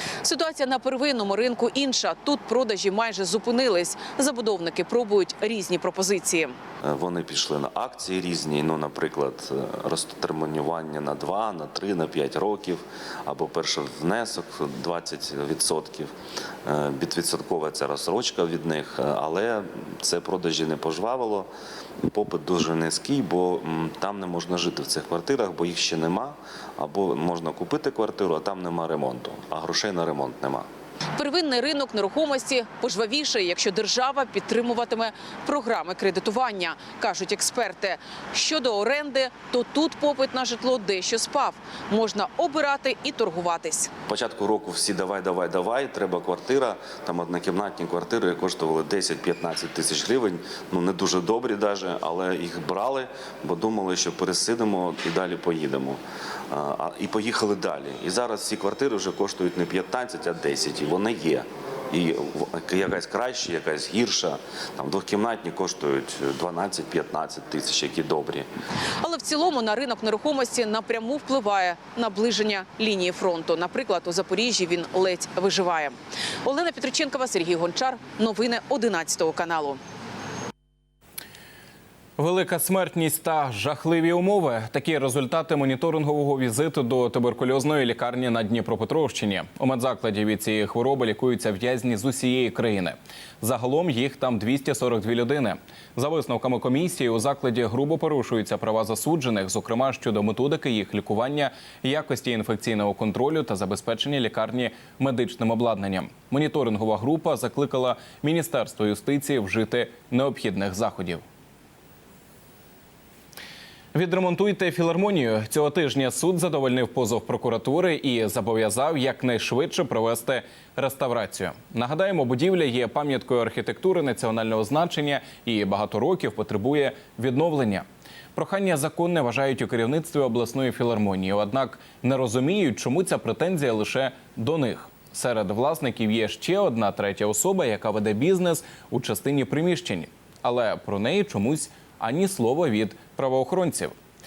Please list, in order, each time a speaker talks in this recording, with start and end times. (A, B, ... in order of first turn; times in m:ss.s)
0:00.2-0:06.6 A
0:06.8-0:16.1 B
0:16.6-0:21.5 B
0:22.0-0:30.7 B
0:31.2-0:43.9 A
0:44.1-1:08.5 B
1:09.0-1:19.8 A
1:22.2-1:51.2 C
1:53.9-2:23.9 C